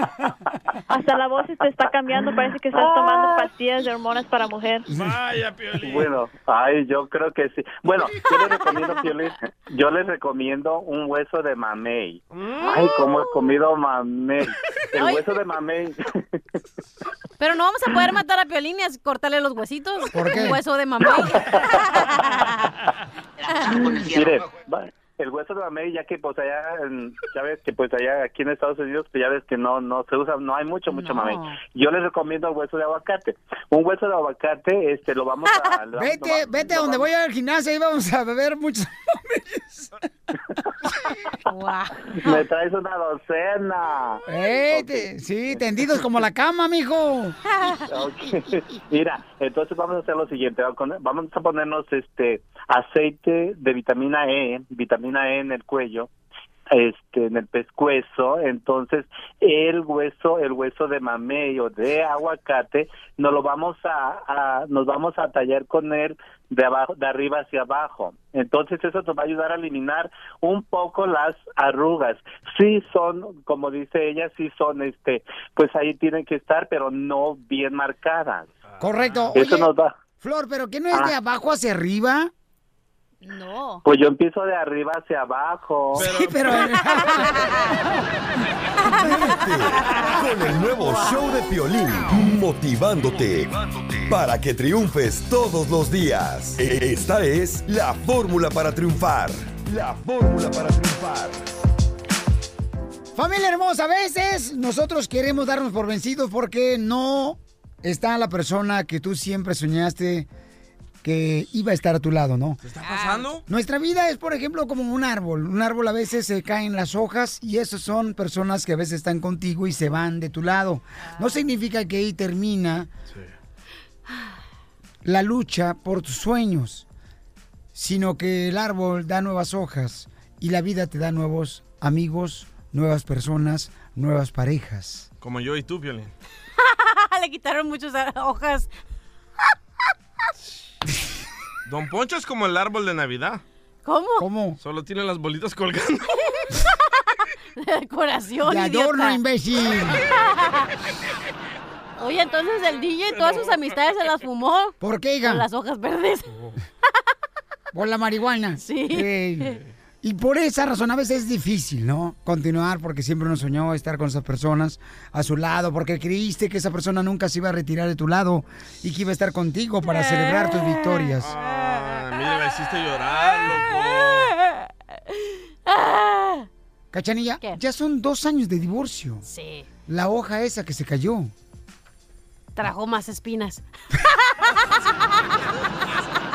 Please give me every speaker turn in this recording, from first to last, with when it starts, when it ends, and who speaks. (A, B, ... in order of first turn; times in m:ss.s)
0:00.9-0:04.9 A
0:02.2-0:03.4 B
0:04.9-0:05.2 C
0:04.9-0:06.2 D
0:05.8-0:16.0 B
0:08.5-0:09.0 E
0:12.3-0:13.0 D
0:12.6-0:13.6 E
0:15.0-0:15.2 E
0:17.4-0:22.8 E
0:20.1-0:20.6 C
0:21.2-0:22.0 B
0:23.5-0:24.0 E
0:23.7-0:37.1 B
0:30.9-0:31.6 E
0:35.5-0:35.8 E
0:35.9-0:39.9 C
0:41.5-0:42.4 E
0:42.2-0:45.8 B
0:44.3-0:47.4 C
0:47.5-0:47.8 E
0:47.9-0:56.1 B
0:56.7-1:18.5 B
1:18.7-1:19.3 D
1:18.8-1:19.7 C
1:19.4-1:19.9 B
1:20.2-1:22.3 C
1:23.2-1:23.8 E
1:23.8-1:26.1 B
1:25.9-1:27.6 C
1:26.0-1:26.8 D
1:26.6-1:27.6 E
1:29.3-1:41.5 F
1:30.6-1:31.2 E
1:43.1-1:50.3 C
1:51.0-1:52.6 C
1:52.6-1:53.4 D
1:52.8-1:53.3 E
1:53.4-2:02.9 C
2:05.0-2:06.9 C
2:07.7-2:15.1 C
2:15.2-2:16.1 D
2:16.6-2:18.7 E
2:21.6-2:23.4 D
2:23.8-2:24.2 E
2:24.2-2:24.6 C
2:24.6-2:26.2 D
2:27.6-2:29.2 E
2:28.4-2:30.0 C
2:30.0-2:30.7 E
2:32.0-2:36.3 E
2:34.8-2:35.4 C
2:37.7-2:51.3 C
2:38.6-2:39.5 E
2:49.9-2:51.1 E
2:51.2-2:54.3 D
2:53.7-2:54.2 E
2:55.6-2:56.5 E
2:56.9-2:59.2 C
2:59.2-2:59.7 E
2:59.9-3:01.3 C
3:02.6-3:04.9 E